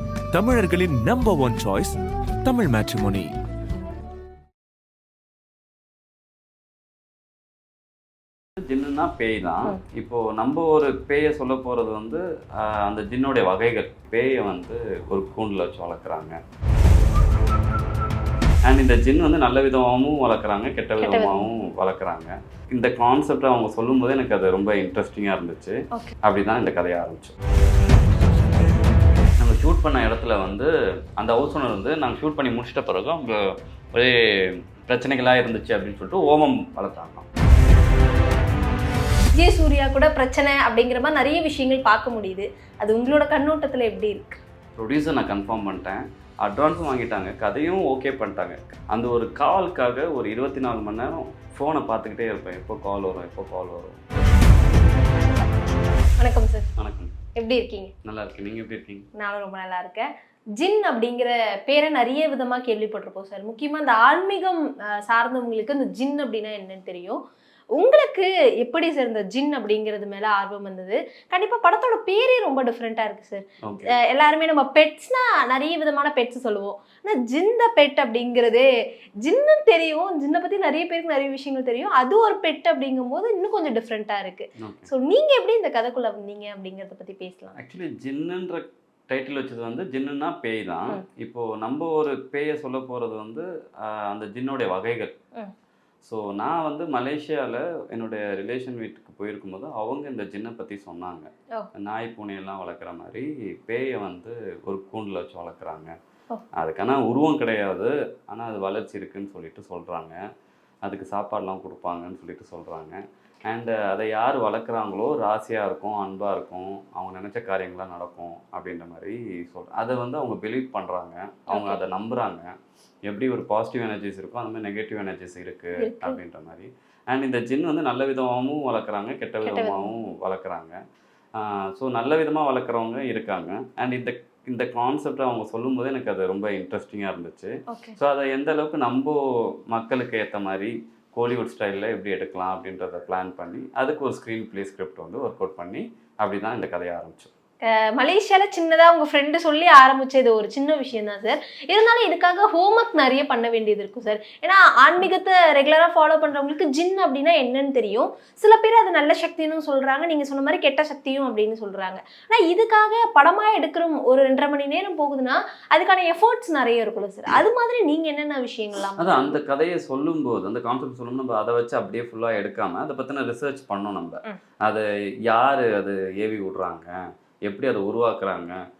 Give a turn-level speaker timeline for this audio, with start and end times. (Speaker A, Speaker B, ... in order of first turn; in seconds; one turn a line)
Speaker A: 0.3-3.3
Speaker B: 8.7-16.4
Speaker B: 18.6-27.3
Speaker C: 21.0-21.7
Speaker B: 29.4-37.2
Speaker C: 39.4-44.4
Speaker B: 44.8-54.0
Speaker C: 56.2-56.6
Speaker B: 56.8-57.1
Speaker C: 57.3-57.9
Speaker B: 58.0-59.1
Speaker C: 59.1-67.2
Speaker C: 67.7-78.7
Speaker B: 73.6-73.9
Speaker C: 79.2-87.6
Speaker B: 84.6-84.9
Speaker B: 87.5-95.1
Speaker B: 96.0-105.9
Speaker B: 106.6-110.2
Speaker B: 110.8-122.5
Speaker C: 121.5-121.8
Speaker B: 123.1-130.8
Speaker C: 125.8-126.2
Speaker C: 129.4-130.0
Speaker B: 131.3-147.3
Speaker C: 137.7-138.0
Speaker C: 147.6-169.4
Speaker B: 169.0-176.9
Speaker B: 177.4-178.6